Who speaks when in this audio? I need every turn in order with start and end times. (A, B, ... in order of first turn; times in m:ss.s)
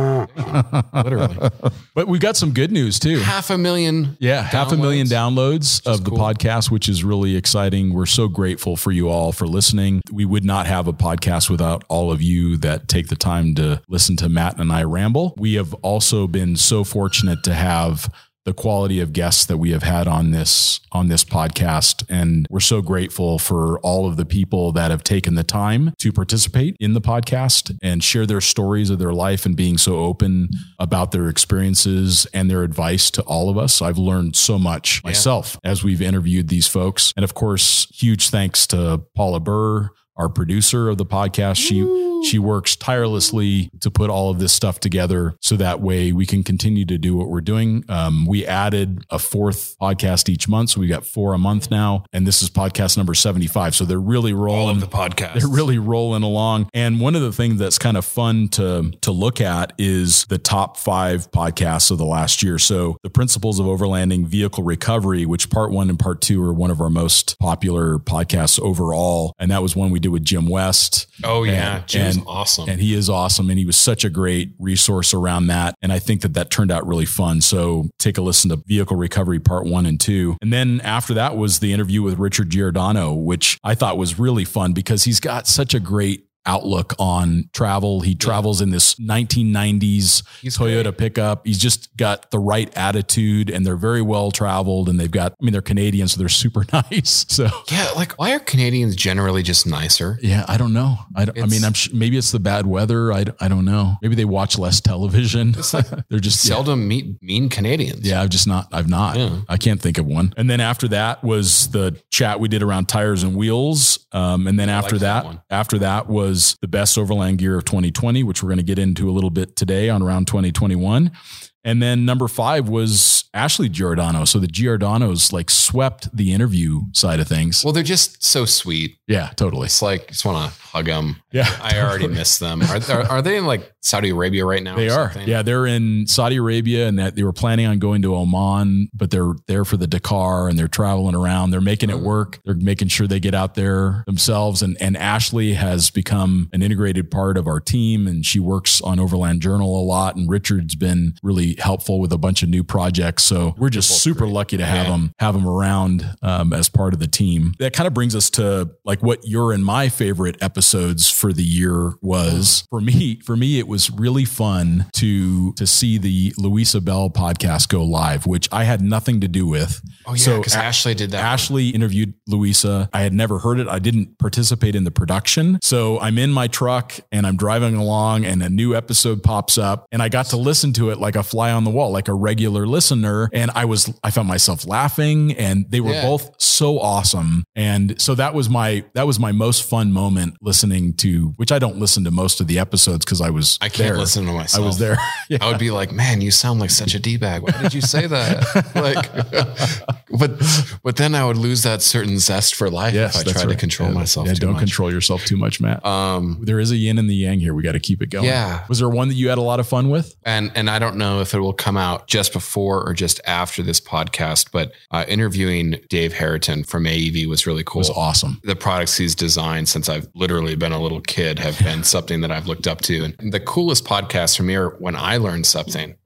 0:00.3-0:01.5 A
0:00.4-0:03.3 B
0:03.2-0:05.2 A
0:04.2-1:37.7 B
0:05.8-0:06.3 A
0:54.5-0:55.7 A
1:11.2-1:12.8 A
1:30.4-1:30.9 A
1:37.7-1:40.2 A
1:40.2-1:46.6 B
1:41.4-1:41.7 A
1:45.6-1:48.2 A
1:48.0-2:01.1 B
1:49.1-1:49.5 A
1:54.6-1:55.4 A
2:01.6-2:07.6 B
2:07.6-2:09.0 A
2:09.1-2:09.7 B
2:09.6-2:15.4 A
2:11.3-2:13.1 B
2:14.7-3:15.6 B
2:33.6-2:35.0 A
2:42.3-2:42.6 A
2:50.0-2:51.5 A
3:05.8-3:06.2 A
3:13.6-3:14.9 A
3:15.4-3:24.8 A
3:17.5-3:19.8 B
3:22.9-3:25.8 B
3:25.8-3:26.4 A
3:26.4-3:30.2 B
3:28.2-3:28.7 A
3:30.2-3:46.0 A
3:37.8-3:38.4 B